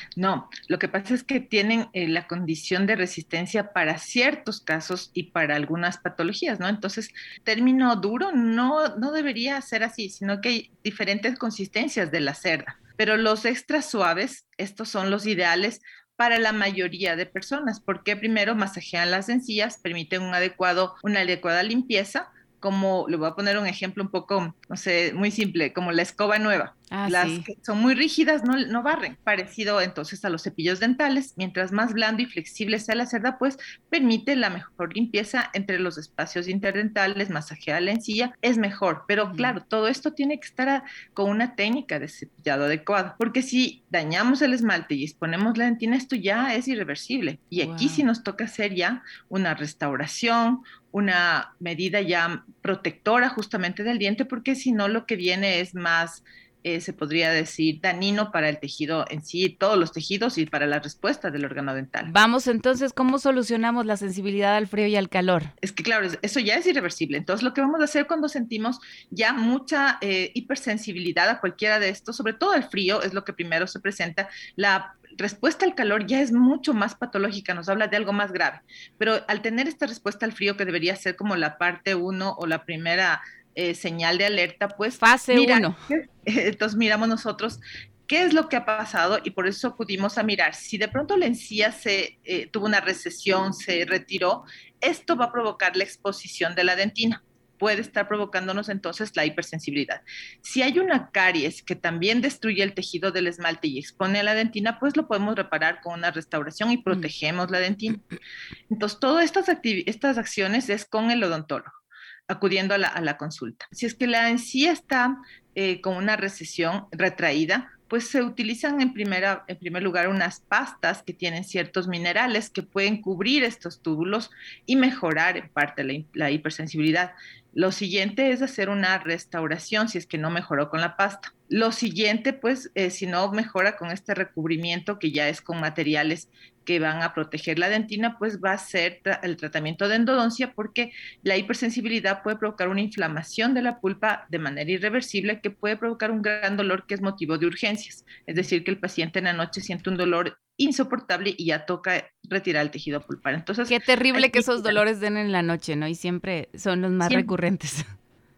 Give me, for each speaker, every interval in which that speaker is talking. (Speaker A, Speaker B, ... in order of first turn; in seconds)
Speaker A: 0.2-62.1, 65.6-108.0, 108.7-111.7, 112.3-154.8, 157.0-157.3
Speaker B: 26.9-27.5, 39.2-39.6, 47.6-48.0, 62.1-65.5, 85.0-85.8, 153.7-157.9